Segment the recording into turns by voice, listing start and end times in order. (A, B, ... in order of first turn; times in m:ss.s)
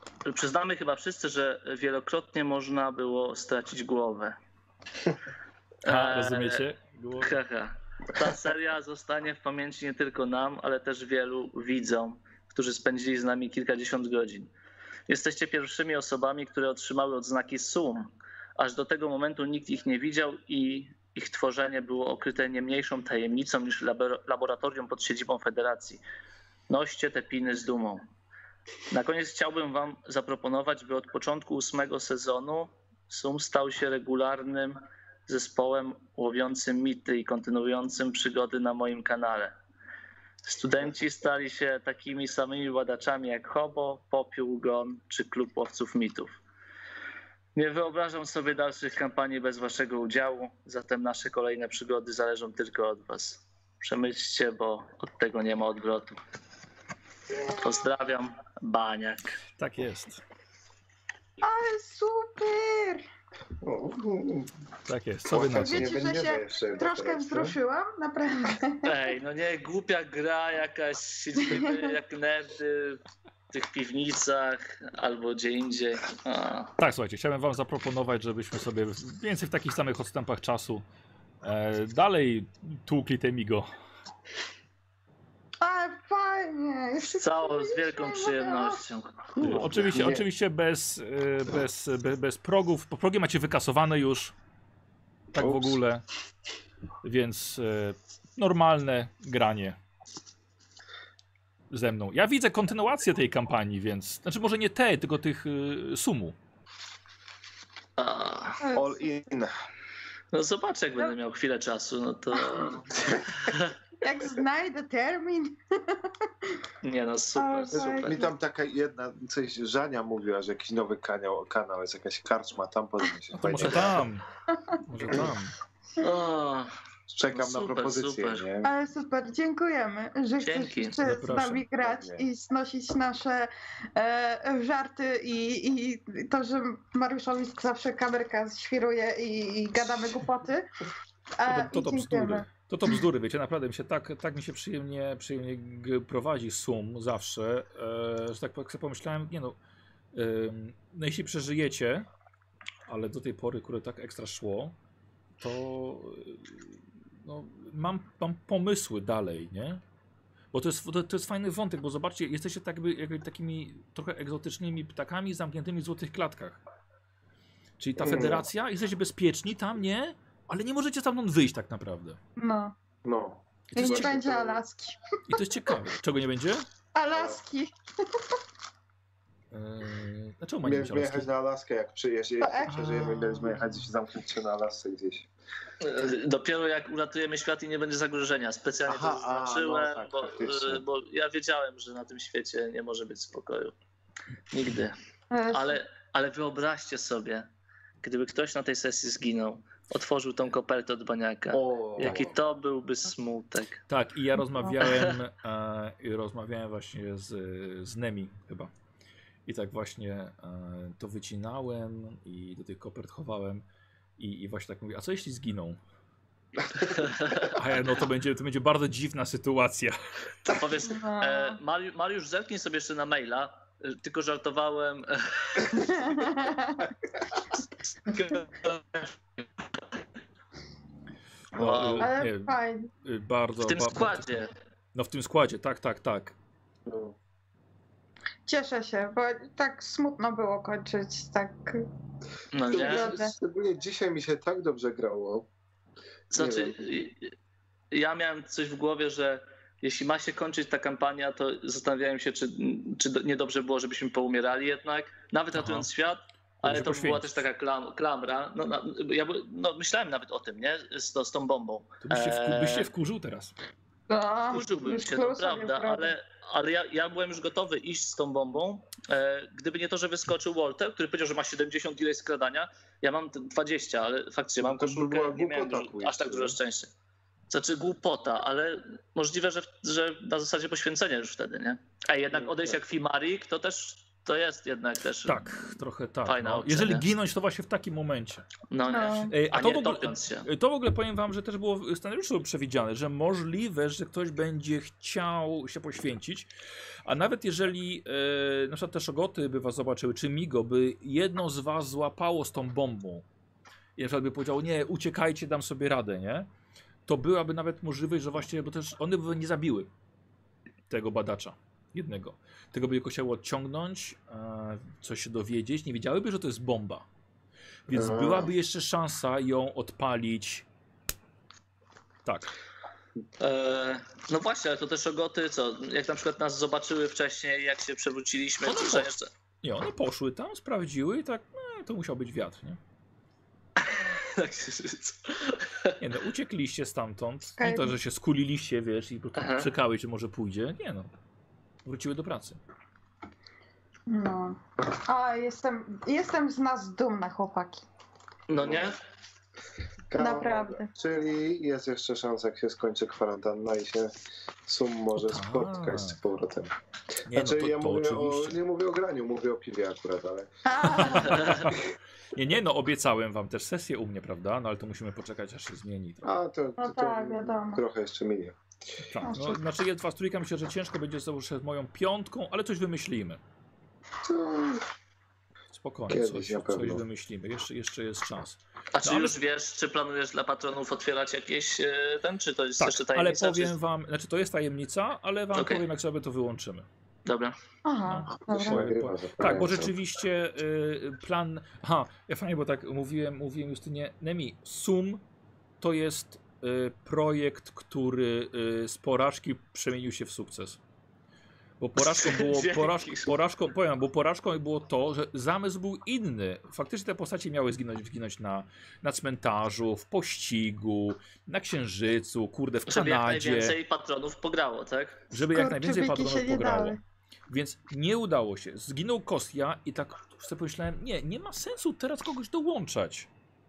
0:00.2-0:04.4 A
0:05.8-0:06.6 A
0:05.8-0:07.3 B
0:07.2-0:14.5 A
0:15.1-0:26.0 A
0:26.7-0:28.0 A
0:28.9-0:39.5 A
0:40.4-0:46.3 A
0:47.5-0:56.2 A
0:57.3-0:57.8 C
0:57.5-0:59.4 A
0:59.6-1:00.2 B
1:01.4-1:03.0 C
1:03.6-1:04.5 D
1:04.9-1:06.0 B
1:05.3-1:07.6 D
1:05.4-1:09.0 C
1:08.8-1:16.7 A
1:11.4-1:11.9 C
1:16.8-1:20.8 B
1:21.4-1:23.7 B
1:25.6-1:28.8 C
1:27.0-1:29.7 A
1:29.4-1:30.2 D
1:29.4-1:34.3 B
1:35.3-1:36.0 B
1:35.4-1:35.8 D
1:37.0-1:39.8 B
1:41.7-1:46.4 B
1:48.0-1:48.6 A
1:48.6-1:49.0 C
1:48.7-1:49.5 D
1:50.3-1:53.7 A
1:52.3-1:52.8 C
1:54.0-1:56.5 C
1:56.8-1:58.2 A
1:57.4-1:58.3 C
1:57.7-2:04.0 D
2:03.3-2:04.2 B
2:04.8-2:05.5 B
2:05.1-2:05.3 D
2:06.0-2:06.7 A
2:07.1-2:08.7 D
2:07.3-2:08.4 A
2:08.6-2:20.7 C
2:10.4-2:11.0 A
2:11.0-2:11.6 B
2:11.8-2:12.2 D
2:21.4-2:22.5 C
2:21.5-2:29.6 B
2:30.1-2:32.1 B
2:32.9-2:34.7 B
2:35.4-2:39.8 B
2:40.5-2:46.6 B
2:47.8-2:52.2 B
2:48.0-2:48.5 D
2:52.4-2:52.7 C
2:53.0-2:54.6 D
2:53.7-2:54.1 B
2:53.8-2:55.4 C
2:55.3-2:56.7 B
2:56.9-2:58.3 C
2:57.1-2:57.4 D
2:59.5-3:01.3 B
3:00.6-3:05.3 D
3:02.4-3:03.5 C
3:02.7-3:03.6 B
3:05.8-3:13.7 A
3:08.8-3:10.8 D
3:14.5-3:14.9 A
3:15.3-3:15.8 C
3:15.5-3:17.5 A
3:18.0-3:23.8 A
3:21.5-3:22.4 D
3:23.9-3:28.7 B
3:24.8-3:25.1 A
3:29.4-3:33.6 B
3:34.2-3:35.8 B
3:36.9-3:37.5 A
3:37.4-3:40.0 B
3:40.4-3:46.0 A
3:40.8-3:41.6 C
3:45.7-3:46.9 C
3:48.1-3:49.1 A
3:51.5-3:52.1 A
3:51.5-3:54.4 B
3:52.0-3:52.9 C
3:53.6-3:54.5 A
3:54.9-3:56.4 B
3:56.8-3:57.2 D
3:58.4-4:01.8 C
4:02.5-4:03.2 A
4:02.7-4:03.3 C
4:02.7-4:05.5 D
4:06.3-4:07.3 A
4:06.3-4:06.8 D
4:07.9-4:22.9 A
4:15.6-4:15.9 B
4:16.6-4:17.4 B
4:22.0-4:23.5 B
4:24.1-4:26.1 C
4:24.5-4:36.9 A
4:34.6-4:36.6 D
4:37.5-4:45.7 A
4:42.4-4:42.7 D
4:45.2-4:48.5 B
4:46.2-4:47.0 A
4:48.7-4:50.5 A
4:48.9-4:49.3 C
4:49.3-4:56.5 B
4:57.0-5:03.2 B
5:04.0-5:06.5 B
5:07.0-5:09.9 B
5:10.9-5:17.0 B
5:17.9-5:20.7 B
5:17.9-5:18.5 D
5:22.2-5:22.5 B
5:23.4-5:29.3 A
5:28.6-5:29.1 B
5:29.6-5:32.8 B
5:33.8-5:36.0 A
5:36.0-5:41.1 B
5:37.6-5:37.9 C
5:39.4-5:39.7 A
5:41.8-5:42.6 B
5:44.1-5:47.8 C
5:48.5-5:49.0 A
5:48.6-5:48.9 D
5:50.1-5:56.7 D
5:50.2-5:50.9 C
5:55.2-5:56.2 B
5:57.2-5:58.6 B
5:57.3-6:01.2 D
6:00.6-6:01.6 C
6:00.8-6:06.3 B
6:06.2-6:08.6 D
6:06.8-6:07.8 C
6:09.1-6:13.4 B
6:09.2-6:09.6 C
6:14.2-6:14.8 D
6:15.7-6:19.4 B
6:16.1-6:17.0 D
6:18.9-6:23.7 A
6:22.8-6:26.9 B
6:25.5-6:25.8 A
6:27.2-6:27.6 A
6:27.8-6:28.8 C
6:28.0-6:35.2 B
6:28.4-6:29.9 D
6:35.8-6:40.8 B
6:41.8-6:53.7 B
6:42.0-6:43.3 A
6:52.9-6:55.2 A
6:55.3-6:57.0 B
6:55.3-6:57.0 C
6:57.5-7:03.3 B